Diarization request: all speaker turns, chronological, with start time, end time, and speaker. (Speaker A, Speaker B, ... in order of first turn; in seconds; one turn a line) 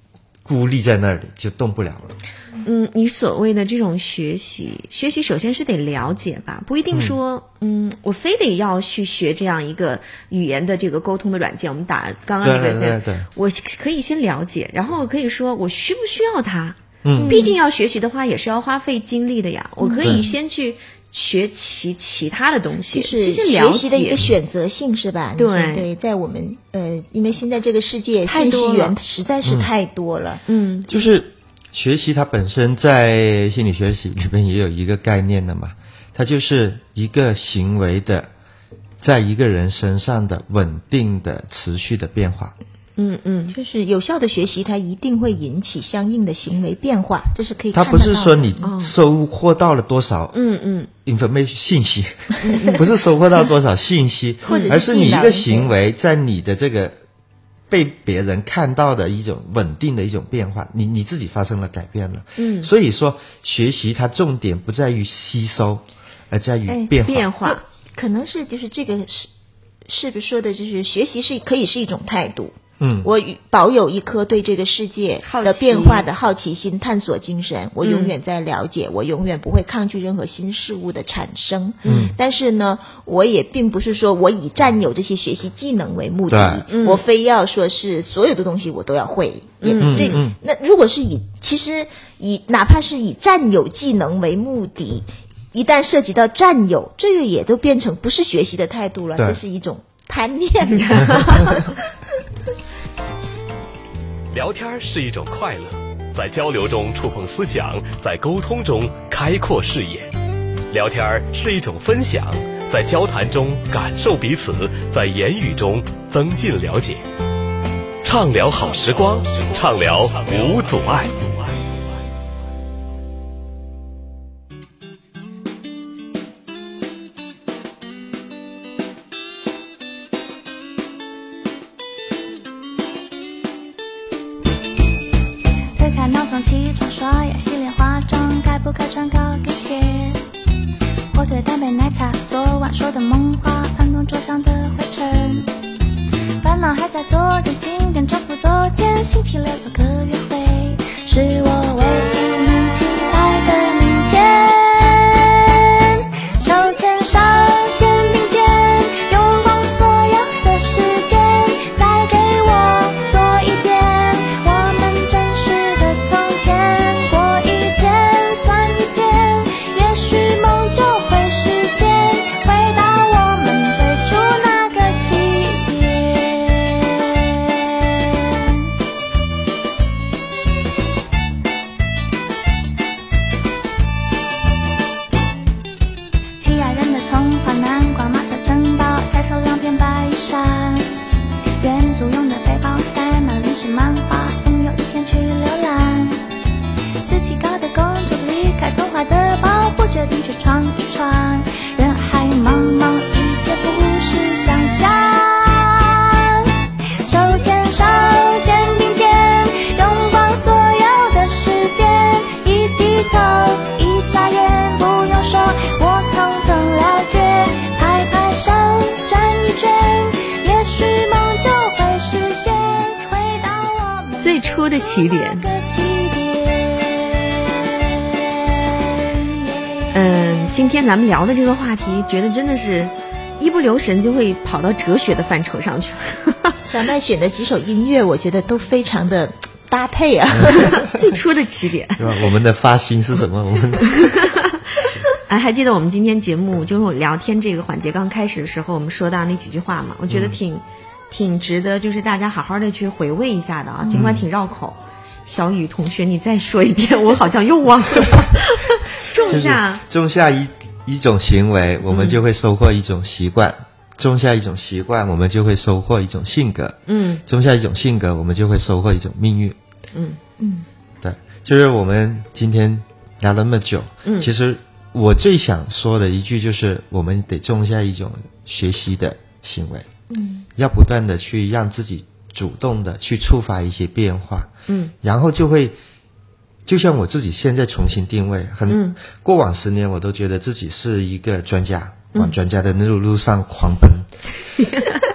Speaker A: 0.5-2.1
Speaker B: 2.6-24.2
Speaker A: 12.4-13.3
Speaker A: 17.0-17.4
Speaker C: 17.1-17.6
Speaker C: 19.8-20.3
Speaker C: 22.9-30.4
Speaker B: 25.4-25.9
Speaker B: 28.2-28.9
Speaker A: 29.4-29.7
Speaker B: 30.5-30.9
Speaker A: 30.9-38.3
Speaker A: 39.0-42.5
Speaker B: 43.0-43.5
Speaker C: 43.5-48.6
Speaker A: 47.7-50.4
Speaker B: 48.6-48.9
Speaker B: 50.3-50.9
Speaker A: 51.0-57.0
Speaker B: 52.4-52.9
Speaker B: 54.5-54.8
Speaker C: 54.5-55.7
Speaker A: 57.7-67.3
Speaker B: 62.4-62.7
Speaker C: 66.7-69.3
Speaker B: 67.0-67.6
Speaker C: 69.8-101.9
Speaker A: 72.8-73.1
Speaker B: 75.2-76.1
Speaker B: 77.8-78.1
Speaker B: 81.8-82.1
Speaker A: 81.9-82.1
Speaker A: 86.3-86.6
Speaker B: 86.7-87.0
Speaker B: 89.6-90.2
Speaker A: 89.8-90.3
Speaker B: 100.7-101.7
Speaker D: 104.3-110.1
Speaker D: 110.7-117.0
Speaker D: 118.0-121.5
Speaker E: 135.8-140.2
Speaker E: 141.1-145.5
Speaker E: 146.4-178.7
Speaker E: 186.4-190.9
Speaker E: 191.4-196.2
Speaker E: 197.0-230.0
Speaker B: 224.2-225.4
Speaker B: 229.9-236.6
Speaker C: 236.6-240.9
Speaker A: 240.3-240.9
Speaker B: 240.5-242.2
Speaker A: 242.0-244.3
Speaker B: 243.8-259.8
Speaker A: 250.1-250.4
Speaker C: 253.8-254.1
Speaker A: 253.9-254.3
Speaker A: 259.3-269.6
Speaker B: 261.9-262.2
Speaker B: 266.9-267.2
Speaker B: 269.9-270.2
Speaker C: 270.4-270.7
Speaker A: 271.0-279.9
Speaker B: 274.0-274.3
Speaker C: 280.1-280.5
Speaker A: 280.6-284.5
Speaker B: 284.7-284.9
Speaker A: 285.0-285.8
Speaker A: 286.6-294.1
Speaker B: 288.7-289.0
Speaker B: 294.6-295.0